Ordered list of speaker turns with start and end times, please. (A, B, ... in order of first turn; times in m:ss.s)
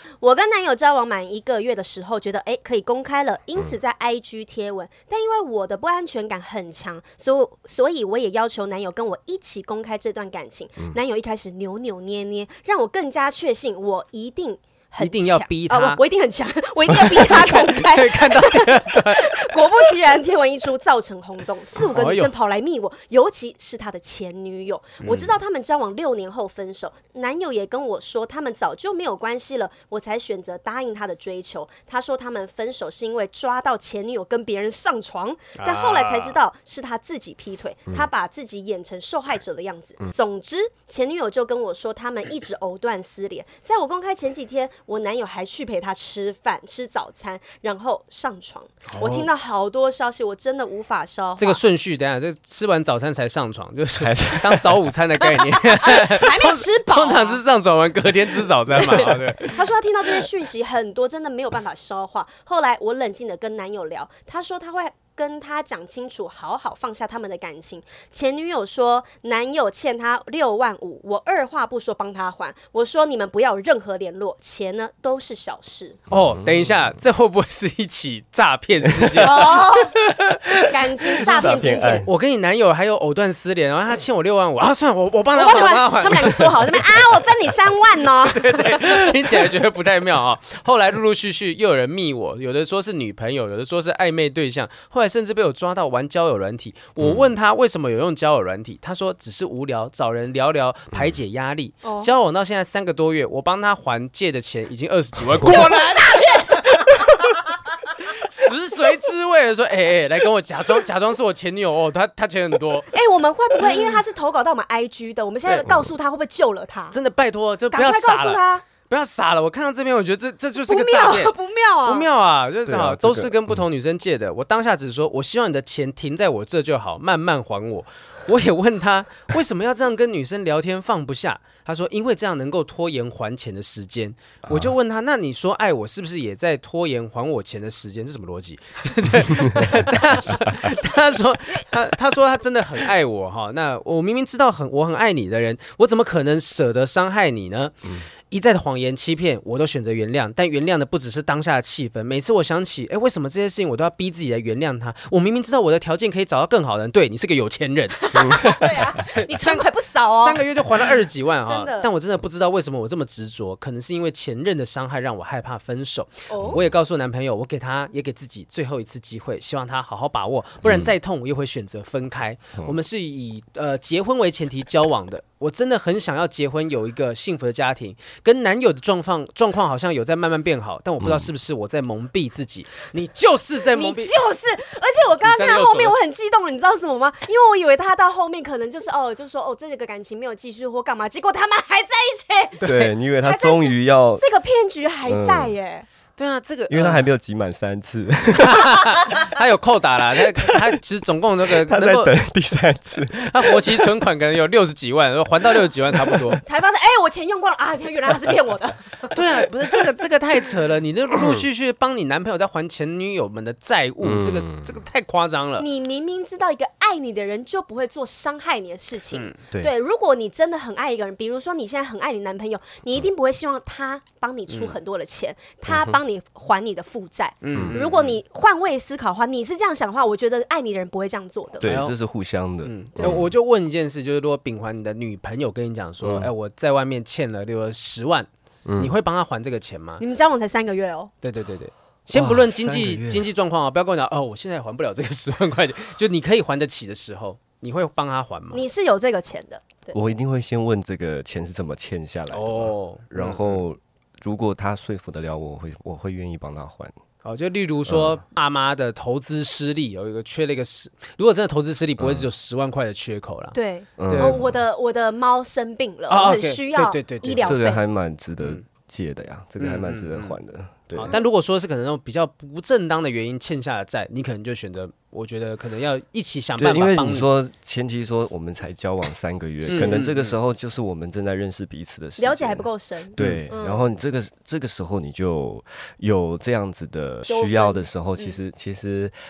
0:00.2-0:51.6 A
0:15.0-0:16.0 B
0:16.9-0:19.9 B
0:21.9-0:22.3 B
0:25.0-0:25.4 B
0:35.6-0:36.4 B
0:48.9-0:49.3 B
0:51.4-0:59.6 B
0:54.0-0:54.9 C
0:55.6-0:57.4 A
0:58.8-1:16.0 A
1:16.1-1:19.8 B
1:19.2-1:22.1 A
1:20.1-1:22.1 C
1:22.0-1:26.8 B
1:25.4-1:29.2 A
1:28.2-1:52.9 B
1:41.8-1:42.1 A
1:45.5-1:47.0 A
1:52.9-1:57.0 A
1:56.9-2:01.3 B
1:57.7-1:58.6 A
2:00.6-2:02.1 A
2:01.8-3:04.1 B
2:02.7-2:03.4 C
2:14.5-2:14.7 C
2:38.0-2:40.9 A
2:38.2-2:38.5 C
2:41.4-2:41.9 A
2:46.3-2:46.6 A
2:46.4-2:46.7 C
2:50.6-2:50.9 C
3:03.7-3:15.9 A
3:05.2-3:06.0 B
3:12.6-3:12.9 B
3:12.6-3:14.2 C
3:15.1-3:15.5 C
3:16.2-3:17.1 B
3:16.7-3:18.9 C
3:18.4-3:22.1 B
3:20.4-3:20.7 C
3:21.5-3:23.9 C
3:23.3-3:26.4 B
3:26.0-3:26.4 C
3:26.4-3:29.4 A
3:29.1-3:35.7 B
3:34.0-3:34.7 C
3:35.6-3:51.6 A
3:47.4-3:48.2 B
3:47.5-3:47.8 C
3:51.6-3:53.3 C
3:51.6-3:51.9 B
3:52.6-4:00.0 B
3:56.0-3:56.3 C
3:58.7-3:58.9 C
4:00.0-4:01.1 A
4:01.2-4:08.6 B
4:02.1-4:03.3 C
4:08.5-4:10.0 A
4:09.9-4:16.9 C
4:12.3-4:13.6 B
4:17.2-4:24.4 B
4:17.9-4:18.2 C
4:23.5-4:27.8 A
4:24.0-4:24.5 C
4:26.1-4:27.6 B
4:27.4-4:31.2 C
4:29.6-4:30.4 B
4:30.9-4:37.3 B
4:36.6-4:49.1 C
4:39.6-4:40.4 B
4:42.2-4:43.9 A
4:43.2-4:43.4 B
4:47.3-4:48.4 A